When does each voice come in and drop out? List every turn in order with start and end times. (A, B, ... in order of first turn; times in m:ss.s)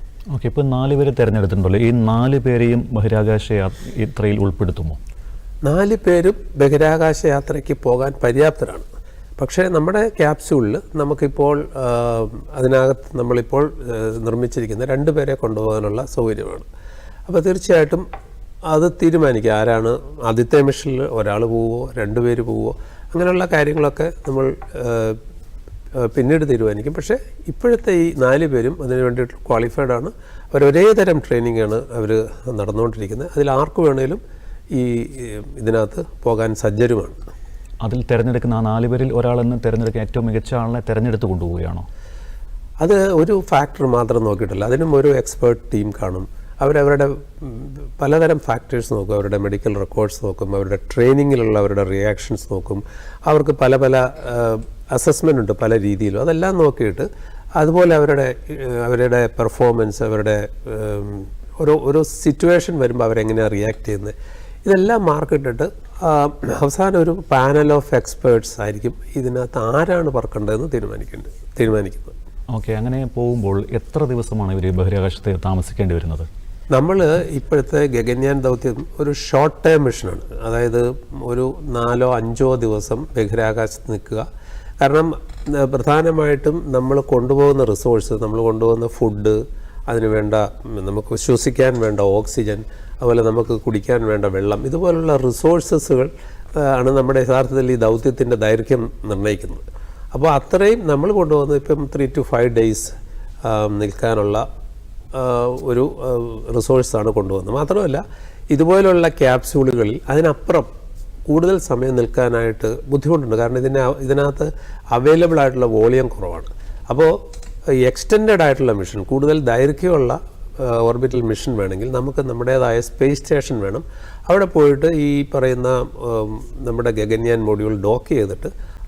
0:00.3-0:05.0 A
0:05.6-0:08.9 B
0:09.4-0:16.7 B
0:17.3-0:18.1 B
0:18.7-0:25.2 B
0:26.0-0:34.2 B
0:34.7-0:37.2 B
0:37.8-0:41.9 A
0:42.8-1:12.2 B
1:12.5-1:16.3 A
1:16.7-1:24.3 B
1:24.8-1:39.6 B
1:40.1-1:42.9 B
1:43.4-1:44.4 B
1:45.1-1:50.7 B
1:51.3-1:57.2 B
1:57.8-2:08.5 B